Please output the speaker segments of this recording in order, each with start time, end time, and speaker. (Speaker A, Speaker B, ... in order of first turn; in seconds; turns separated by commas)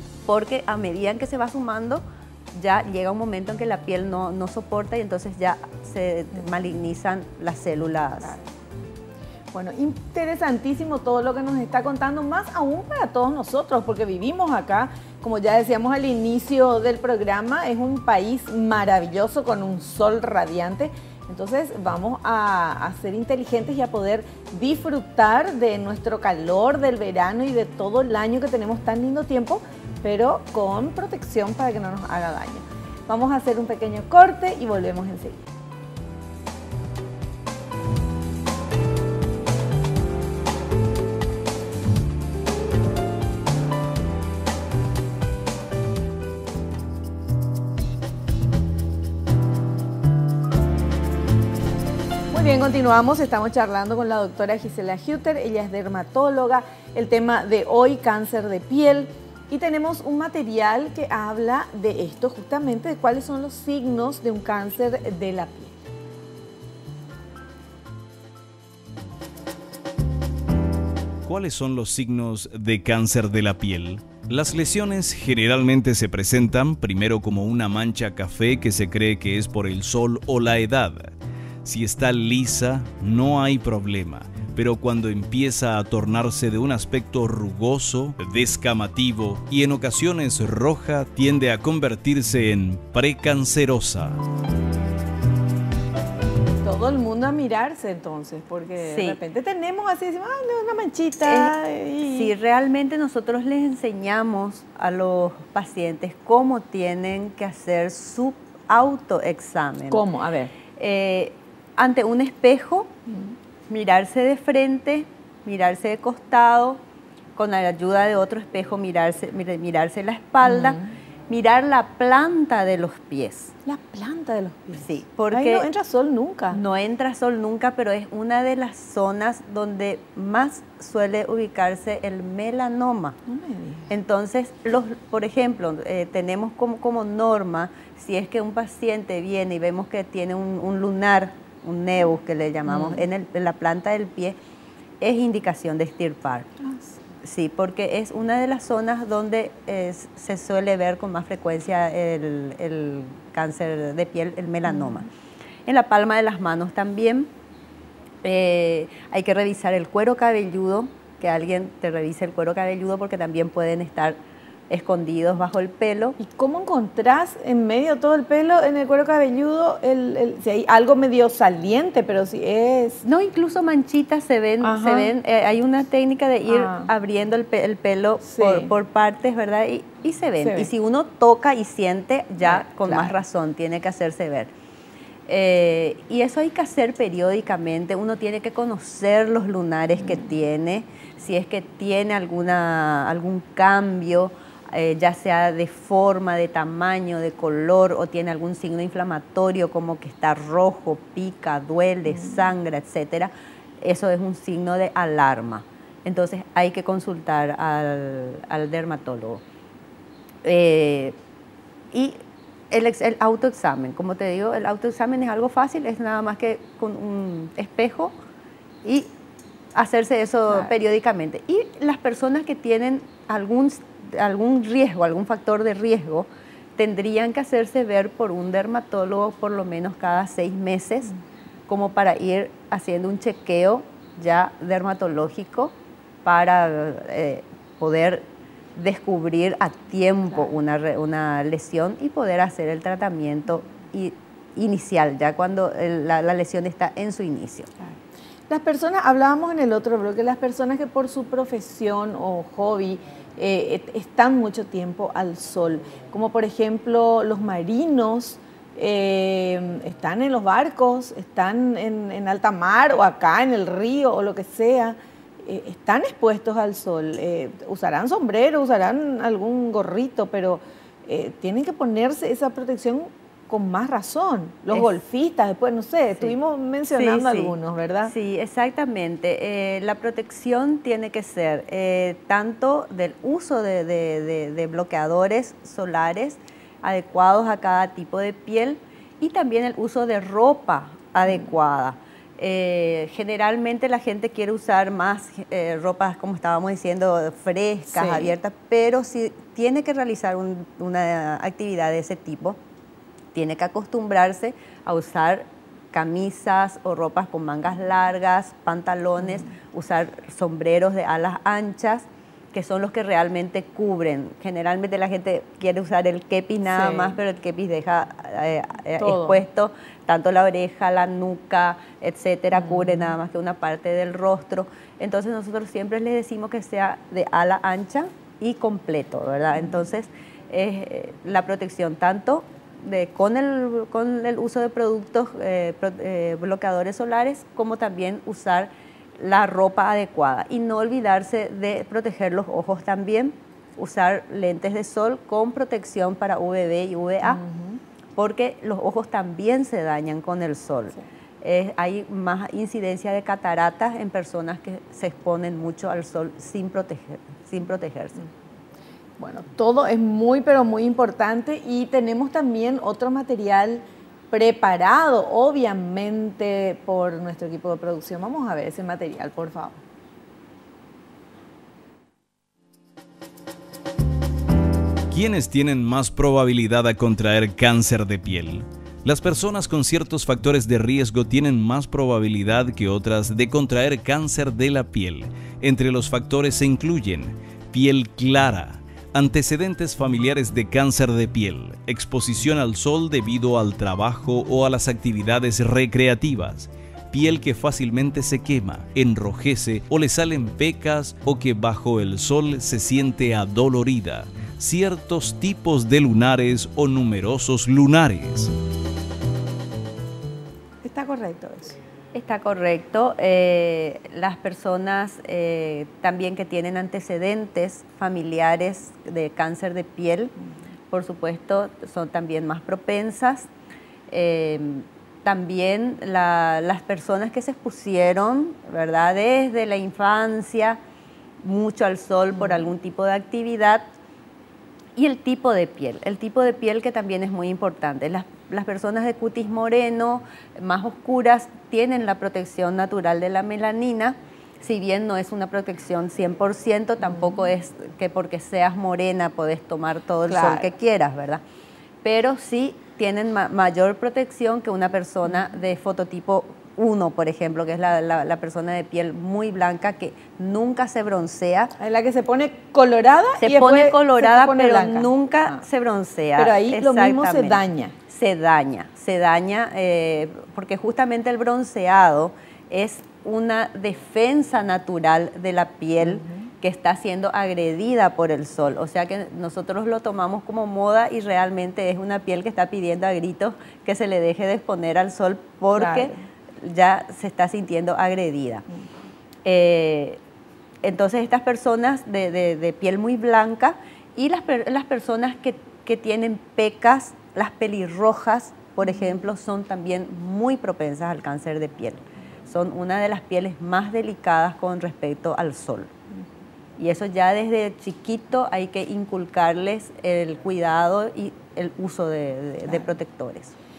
Speaker A: 0.3-8.4, Speaker B: 9.5-35.5, Speaker B: 52.3-65.8, Speaker C: 71.3-81.1, Speaker C: 81.6-94.2, Speaker B: 96.6-102.3, Speaker A: 98.8-99.2, Speaker A: 101.2-110.1, Speaker B: 109.9-110.5, Speaker A: 110.8-112.9, Speaker A: 113.7-116.8, Speaker A: 117.4-123.5, Speaker B: 120.4-120.8, Speaker B: 123.6-126.6, Speaker A: 124.8-125.7, Speaker A: 126.5-133.2, Speaker B: 133.3-133.9, Speaker A: 133.9-144.4, Speaker B: 142.7-143.1, Speaker A: 145.0-146.5, Speaker A: 147.2-155.1, Speaker A: 155.7-157.3, Speaker A: 158.2-164.2, Speaker A: 164.7-166.2, Speaker B: 166.2-173.0, Speaker A: 173.0-184.5, Speaker B: 174.6-175.1, Speaker B: 176.5-176.9, Speaker B: 178.2-178.7, Speaker B: 180.4-180.7, Speaker B: 182.4-183.1, Speaker A: 185.3-209.4, Speaker A: 210.4-211.2, Speaker A: 211.9-218.1, Speaker A: 218.8-219.1, Speaker A: 219.8-231.2, Speaker A: 231.7-235.7, Speaker A: 236.2-247.7, Speaker B: 247.8-278.1, Speaker A: 276.9-277.5, Speaker A: 278.1-302.6, Speaker B: 297.9-298.4, Speaker A: 303.3-347.4, Speaker B: 316.6-317.2, Speaker B: 319.0-319.4, Speaker B: 322.6-323.0, Speaker B: 347.2-347.8, Speaker A: 348.1-358.2, Speaker B: 359.2-369.8, Speaker C: 375.1-408.5, Speaker B: 410.8-411.8, Speaker A: 412.1-420.3, Speaker A: 420.9-423.5, Speaker A: 424.1-430.8, Speaker A: 431.4-433.9, Speaker A: 435.0-451.4, Speaker B: 450.3-450.7, Speaker A: 452.0-461.7, Speaker B: 461.8-465.6, Speaker A: 463.4-488.6, Speaker B: 466.4-467.9, Speaker B: 476.0-476.4, Speaker B: 485.8-486.2, Speaker A: 489.4-490.2, Speaker A: 490.8-505.9, Speaker A: 506.8-513.5